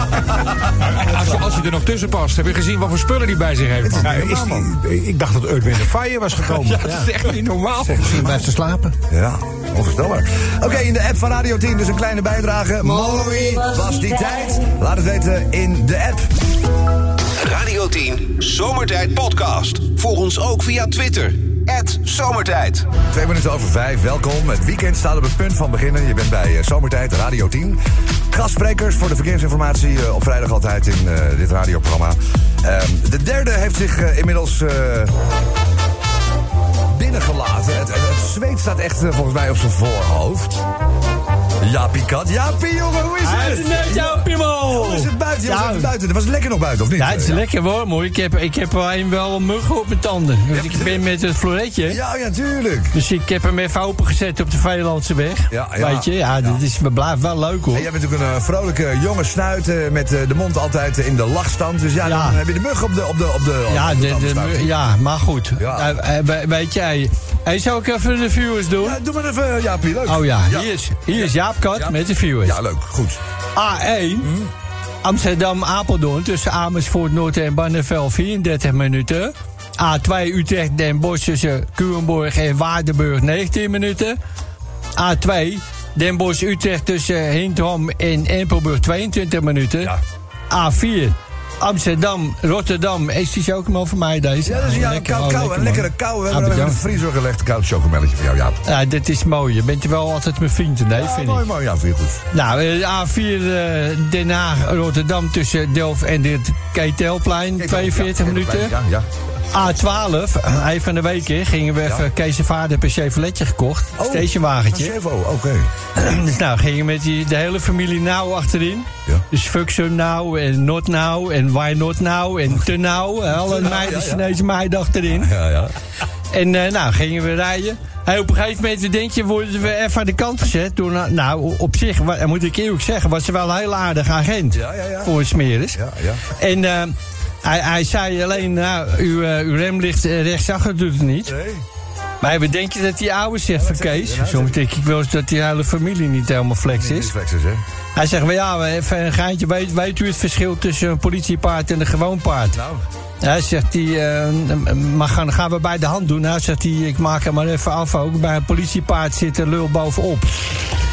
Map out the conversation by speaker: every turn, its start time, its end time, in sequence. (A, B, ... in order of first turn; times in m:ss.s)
0:00.9-0:04.1 A
0:03.8-0:04.7 B
0:04.0-0:06.9 C
0:06.4-0:08.4 A
0:07.9-0:08.9 D
0:09.1-0:16.4 B
0:17.4-0:22.9 E
0:23.1-0:27.8 B
0:28.3-0:35.1 B
0:36.9-0:40.6 B
0:41.6-0:47.4 B
0:43.2-0:45.9 D
0:47.0-0:52.0 D
0:50.5-0:51.0 B
0:51.9-0:52.9 B
0:52.9-0:57.9 D
0:55.5-0:56.6 B
0:57.7-1:04.7 B
1:02.0-1:02.4 D
1:03.7-1:09.0 D
1:05.6-1:05.9 B
1:08.8-1:13.2 B
1:10.1-1:12.6 D
1:13.6-1:14.3 D
1:14.2-1:14.5 B
1:15.0-1:24.2 D
1:25.0-1:29.9 D
1:30.5-1:36.8 D
1:34.4-1:38.6 B
1:38.6-1:41.4 D
1:40.9-1:42.2 B
1:42.3-1:48.7 D
1:47.6-1:49.1 B
1:49.5-1:54.9 D
1:54.0-1:55.7 B
1:55.9-2:05.3 D
2:03.3-2:04.3 B
2:05.1-2:05.7 B
2:06.3-2:15.8 D
2:14.5-2:15.1 B
2:15.7-2:16.2 B
2:16.3-2:21.3 D
2:21.2-2:21.6 B
2:22.2-2:27.1 D
2:23.5-2:24.6 B
2:26.7-2:27.6 B
2:28.0-2:32.6 D
2:32.5-2:32.8 B
2:33.2-2:40.6 D